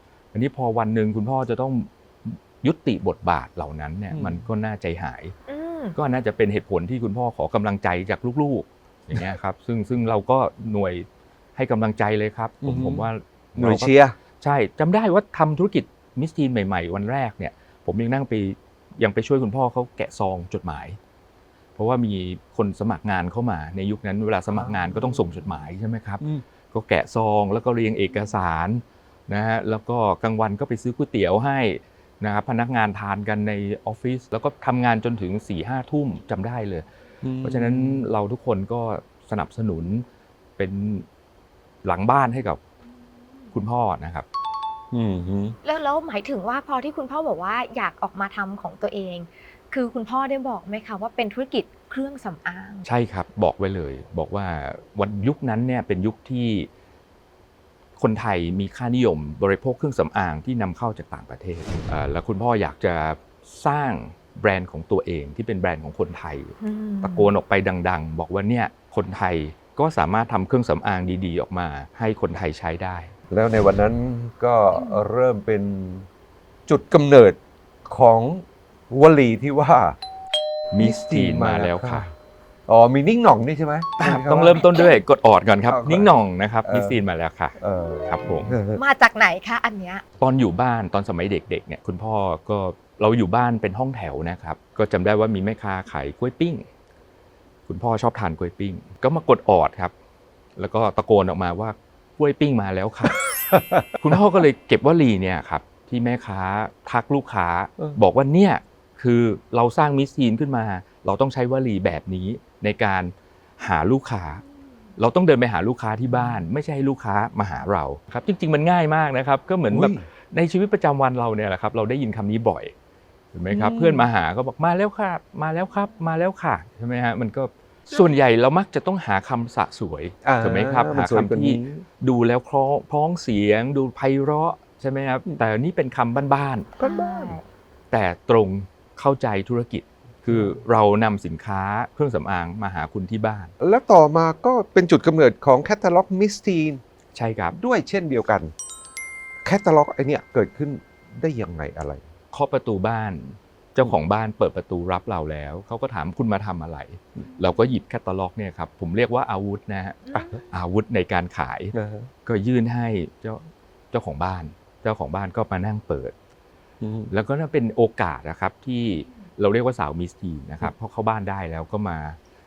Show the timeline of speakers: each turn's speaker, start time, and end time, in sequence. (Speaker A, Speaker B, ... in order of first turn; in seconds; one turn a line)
Speaker A: 0.3-5.3
Speaker B: 4.1-4.5
Speaker C: 5.5-6.0
Speaker A: 6.0-21.0
Speaker B: 12.6-14.2
Speaker A: 21.8-36.9
Speaker B: 24.5-25.4
Speaker B: 37.2-38.1
Speaker A: 37.4-40.1
Speaker A: 40.6-41.1
Speaker A: 41.8-42.6
Speaker A: 43.5-44.3
Speaker B: 44.9-45.6
Speaker C: 45.6-52.9
Speaker A: 52.8-56.7
Speaker A: 58.0-73.1
Speaker C: 66.6-67.3
Speaker B: 73.3-76.1
Speaker C: 74.8-75.0
Speaker B: 76.7-80.0
Speaker A: 80.7-82.1
Speaker B: 80.8-82.1
Speaker B: 82.7-84.8
Speaker A: 84.0-88.5
Speaker B: 85.7-86.1
Speaker B: 86.6-87.0
Speaker B: 87.6-88.8
Speaker C: 88.8-90.0
Speaker A: 90.2-96.7
Speaker A: 97.7-99.9
Speaker A: 100.6-103.2
Speaker B: 103.5-104.0
Speaker A: 104.0-114.4
Speaker A: 115.0-122.7
Speaker B: 116.1-116.5
Speaker B: 119.7-120.1
Speaker A: 123.3-136.7
Speaker B: 123.5-124.1
Speaker B: 130.2-131.8
Speaker C: 136.8-137.4
Speaker B: 136.8-137.4
Speaker A: 137.9-143.5
Speaker B: 143.6-146.8
Speaker A: 147.2-147.6
Speaker B: 147.5-148.5
Speaker B: 149.4-152.0
Speaker A: 152.3-161.7
Speaker C: 160.1-160.4
Speaker B: 161.7-162.1
Speaker A: 162.3-166.1
Speaker B: 166.8-167.1
Speaker A: 167.1-172.2